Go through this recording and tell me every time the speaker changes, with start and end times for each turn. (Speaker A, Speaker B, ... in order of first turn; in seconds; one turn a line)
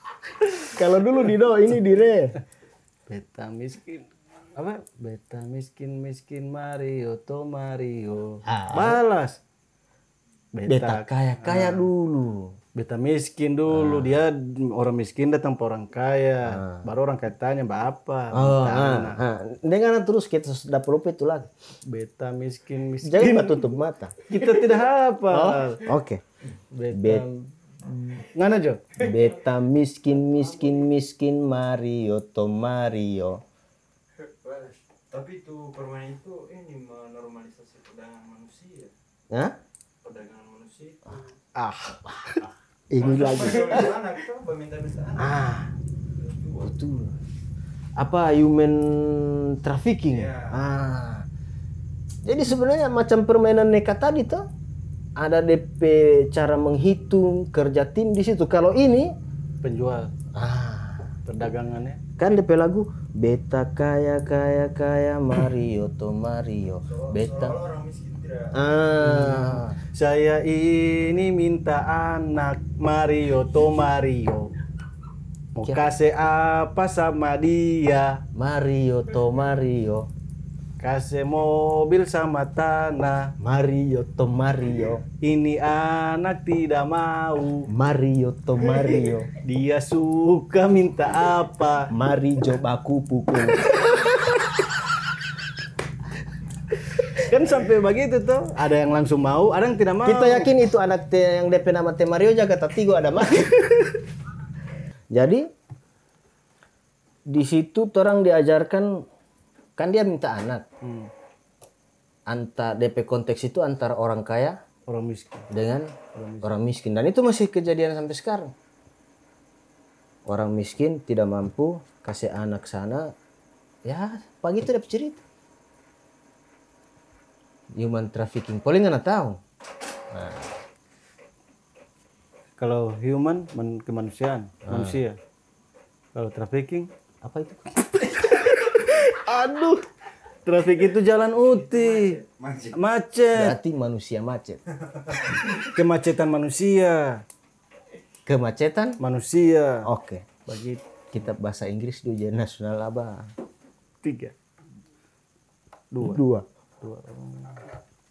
Speaker A: 0.6-2.4
Speaker B: 3.1-9.4
Speaker A: 8.5-9.0
Speaker B: 10.6-11.9
Speaker A: 10.7-12.6
Speaker B: 12.8-19.2
Speaker A: 13.7-14.2
Speaker A: 16.5-16.9
Speaker A: 18.3-21.5
Speaker B: 21.9-23.6
Speaker A: 23.0-24.2
Speaker B: 24.3-25.9
Speaker A: 25.3-26.2
Speaker B: 26.7-28.9
Speaker A: 26.9-27.2
Speaker A: 29.0-33.4
Speaker C: 34.4-38.9
Speaker A: 39.3-39.6
Speaker C: 40.0-41.3
Speaker B: 41.6-42.4
Speaker A: 42.9-44.0
Speaker C: 42.9-45.4
Speaker A: 45.2-45.7
Speaker C: 46.2-46.8
Speaker A: 46.6-47.2
Speaker A: 48.0-51.3
Speaker C: 50.1-50.6
Speaker A: 52.2-54.5
Speaker A: 55.2-59.1
Speaker B: 59.6-60.1
Speaker A: 60.4-61.1
Speaker B: 61.2-62.0
Speaker A: 62.2-67.6
Speaker C: 66.9-68.8
Speaker A: 68.5-69.8
Speaker B: 69.0-74.5
Speaker B: 75.6-78.2
Speaker A: 78.3-80.1
Speaker B: 80.8-83.3
Speaker A: 83.4-85.0
Speaker B: 85.2-87.7
Speaker A: 87.7-89.3
Speaker B: 89.4-91.9
Speaker A: 91.9-94.5
Speaker B: 97.1-100.5
Speaker A: 100.0-103.9
Speaker A: 105.1-105.5
Speaker A: 107.3-109.1
Speaker A: 109.8-110.7
Speaker B: 110.8-111.1
Speaker A: 112.3-114.6
Speaker B: 114.9-115.5
Speaker A: 115.5-118.5
Speaker B: 116.1-116.5
Speaker A: 120.3-123.1
Speaker A: 123.9-125.2
Speaker A: 127.8-129.4
Speaker A: 130.1-130.5
Speaker B: 132.6-135.2
Speaker A: 134.7-135.0
Speaker B: 136.2-136.9
Speaker A: 137.2-137.7
Speaker B: 138.0-139.8
Speaker B: 140.4-142.2
Speaker C: 141.4-142.8
Speaker B: 142.7-143.6
Speaker A: 143.3-144.6
Speaker C: 144.9-145.3
Speaker B: 145.4-147.2
Speaker A: 148.3-149.0
Speaker B: 149.0-149.9
Speaker A: 149.9-150.3
Speaker B: 150.5-150.8
Speaker A: 151.1-153.3
Speaker B: 154.0-154.3
Speaker B: 155.9-156.2
Speaker A: 156.0-156.5
Speaker B: 156.8-157.7